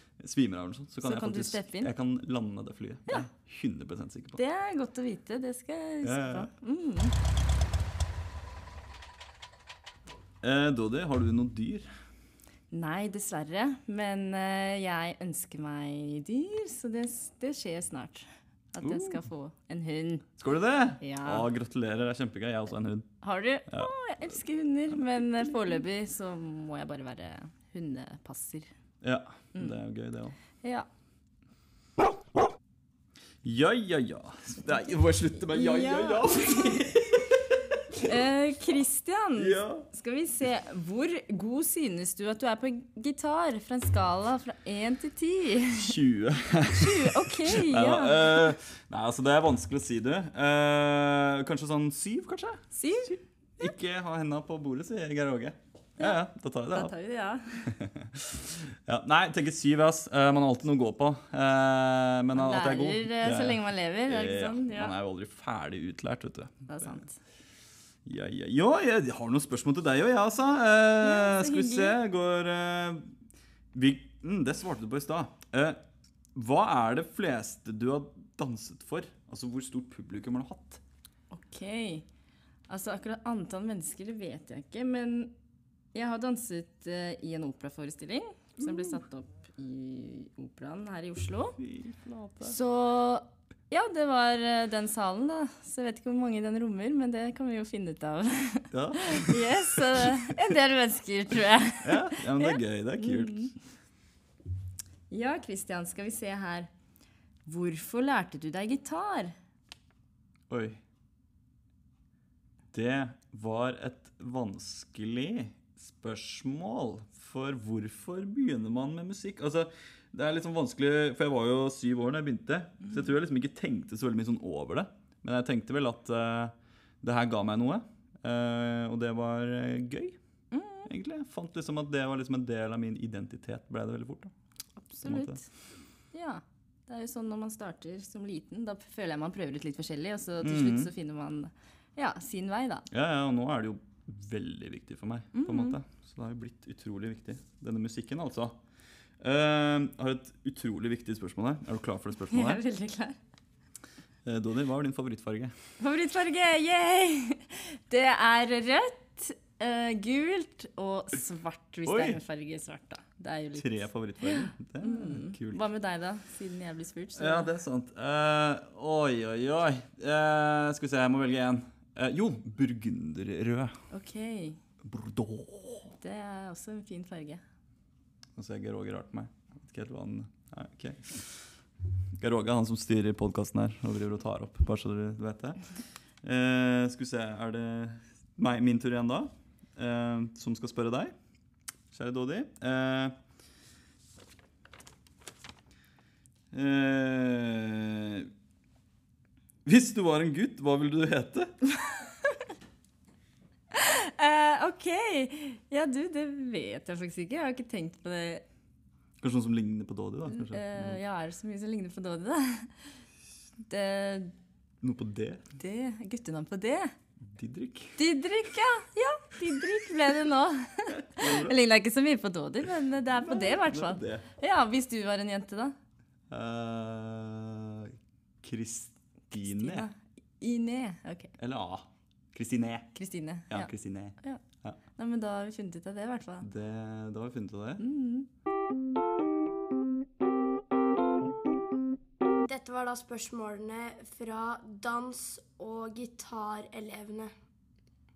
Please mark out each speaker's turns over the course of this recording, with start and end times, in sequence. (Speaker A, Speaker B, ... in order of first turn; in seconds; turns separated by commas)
Speaker A: 0.2-4.4, Speaker B: 1.0-1.9, Speaker B: 4.4-7.1, Speaker A: 6.0-6.5, Speaker A: 10.4-11.9, Speaker B: 12.7-20.3, Speaker A: 18.8-19.2, Speaker A: 20.4-23.1, Speaker B: 21.0-21.5, Speaker B: 23.2-28.7, Speaker A: 24.9-25.8, Speaker A: 29.0-30.4, Speaker B: 30.6-30.9, Speaker A: 33.4-37.4, Speaker B: 35.5-36.8, Speaker B: 38.0-46.0, Speaker A: 39.4-39.9, Speaker A: 45.7-56.9, Speaker B: 46.7-48.5, Speaker B: 52.7-53.7, Speaker B: 56.7-57.8, Speaker A: 57.7-67.0, Speaker B: 62.3-64.9, Speaker B: 66.7-67.2, Speaker A: 68.0-73.1, Speaker B: 71.0-72.0, Speaker A: 73.7-75.8, Speaker A: 76.3-80.8, Speaker B: 81.3-82.0, Speaker B: 82.7-85.3, Speaker B: 85.9-91.6, Speaker A: 88.6-89.0, Speaker A: 91.6-92.6, Speaker B: 92.4-103.5, Speaker A: 98.7-100.2, Speaker A: 101.8-103.5, Speaker B: 105.1-106.7, Speaker B: 107.5-109.3, Speaker A: 110.5-110.8, Speaker A: 112.7-130.2, Speaker B: 130.5-130.9, Speaker A: 130.8-134.3, Speaker B: 134.8-135.5, Speaker A: 135.0-135.4, Speaker B: 136.1-142.9, Speaker A: 140.4-140.9, Speaker A: 142.9-148.6, Speaker B: 145.3-145.8, Speaker A: 149.2-152.6, Speaker B: 152.3-153.2, Speaker A: 154.2-155.5, Speaker B: 155.8-167.5, Speaker A: 161.8-162.2, Speaker A: 163.5-165.6, Speaker A: 167.2-173.8, Speaker B: 173.9-174.6, Speaker A: 174.8-175.9, Speaker B: 175.9-177.4, Speaker A: 178.3-181.2, Speaker A: 182.2-185.6, Speaker A: 186.2-191.1, Speaker A: 191.9-193.1, Speaker A: 196.5-198.3, Speaker A: 199.6-201.5, Speaker B: 203.7-208.4, Speaker A: 209.2-211.0, Speaker B: 210.2-212.7, Speaker B: 213.7-214.3, Speaker A: 214.8-215.4, Speaker B: 215.6-216.9, Speaker A: 217.2-218.0, Speaker B: 218.0-225.7, Speaker A: 220.9-221.6, Speaker A: 223.1-224.3, Speaker A: 226.3-229.9, Speaker B: 229.4-231.3, Speaker A: 231.4-232.9, Speaker B: 232.9-233.7, Speaker A: 233.5-234.8, Speaker B: 234.9-236.5, Speaker A: 236.4-237.8, Speaker B: 237.8-238.3, Speaker C: 242.5-247.3